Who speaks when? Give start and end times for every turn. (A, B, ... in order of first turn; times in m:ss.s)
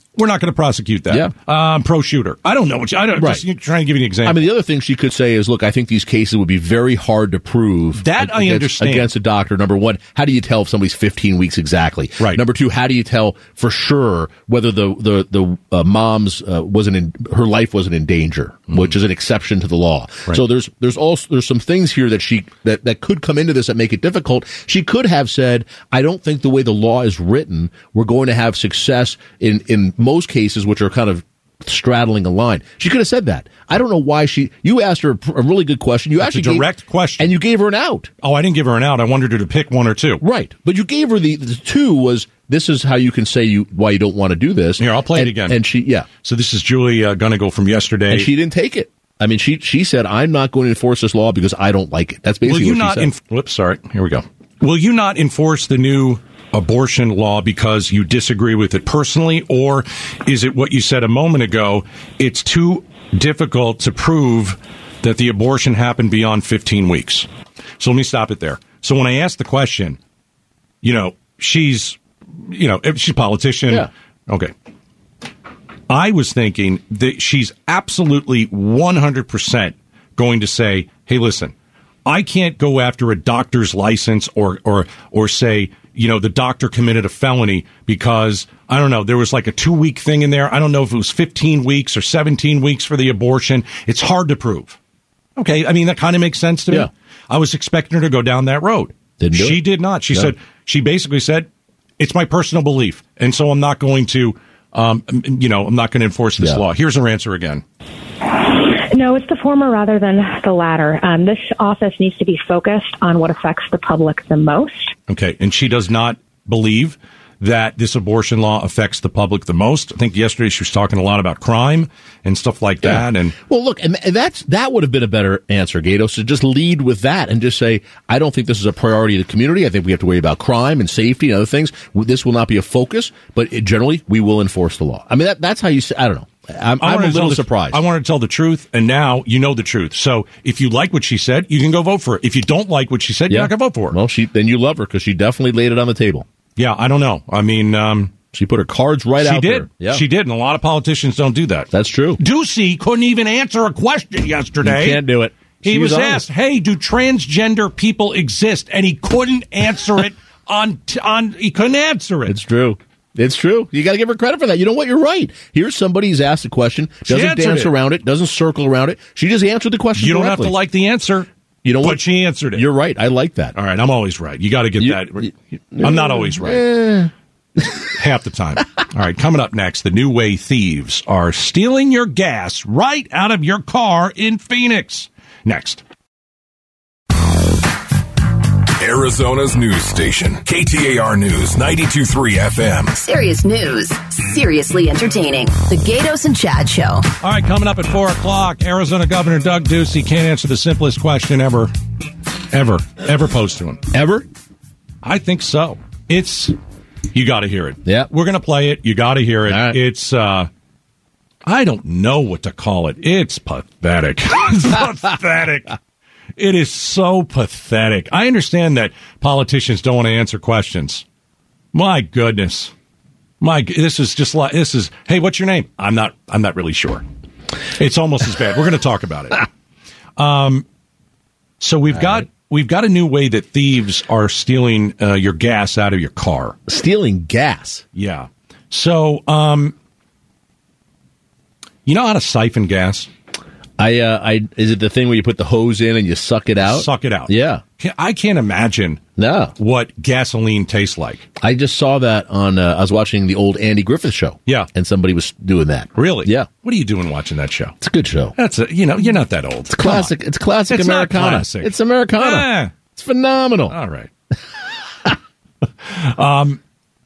0:00.2-0:04.4 A
0:03.2-0:03.4 B
0:04.2-0:38.1 B
0:08.0-0:09.1 A
0:36.2-0:37.3 A
0:38.2-0:40.2 A
0:40.2-0:46.1 B
0:44.8-0:45.6 A
0:46.2-0:48.3 A
0:48.1-0:53.1 B
0:52.4-1:07.3 A
1:07.8-1:10.0 A
1:10.8-1:14.5 A
1:15.9-1:21.5 A
1:22.1-1:34.8 A
1:35.4-1:41.5 A
1:39.2-1:40.3 B
1:42.0-1:47.6 A
1:48.3-1:54.9 C
1:55.1-2:03.4 A
2:02.8-2:17.8 B
2:16.8-2:24.0 A
2:23.3-2:26.3 B
2:26.6-2:28.1 A
2:28.3-2:30.0 B
2:29.2-2:35.0 A
2:31.7-2:32.2 B
2:34.6-2:36.2 B
2:35.6-2:42.4 A
2:42.3-2:50.6 B
2:47.1-2:47.7 A
2:50.0-2:51.3 A
2:51.6-2:53.6 B
2:51.8-2:52.6 A
2:53.6-2:56.6 A
2:54.8-2:57.1 B
2:58.0-3:05.8 A
3:08.8-3:13.0 D
3:13.0-3:17.1 E
3:17.2-3:21.7 A
3:22.5-3:23.8 A
3:23.9-3:24.3 B
3:25.0-3:26.6 A
3:27.1-3:30.5 A
3:27.8-3:28.1 B
3:29.5-3:29.8 B
3:31.4-3:35.8 A
3:36.4-3:41.0 A
3:41.7-3:42.7 A
3:43.4-3:47.0 A
3:47.8-3:49.5 A
3:50.2-3:50.6 A
3:51.6-3:56.6 A
3:56.7-3:57.8 B
3:58.0-3:59.8 A
4:01.9-4:03.1 A
4:03.8-4:07.6 B
4:06.6-4:09.0 A
4:09.2-4:09.5 B
4:09.6-4:11.3 A
4:11.4-4:16.5 B
4:16.0-4:17.8 A
4:17.8-4:18.3 B
4:18.4-4:20.1 A
4:19.7-4:23.8 B
4:20.7-4:22.7 A
4:23.7-4:24.1 A
4:25.8-4:26.6 A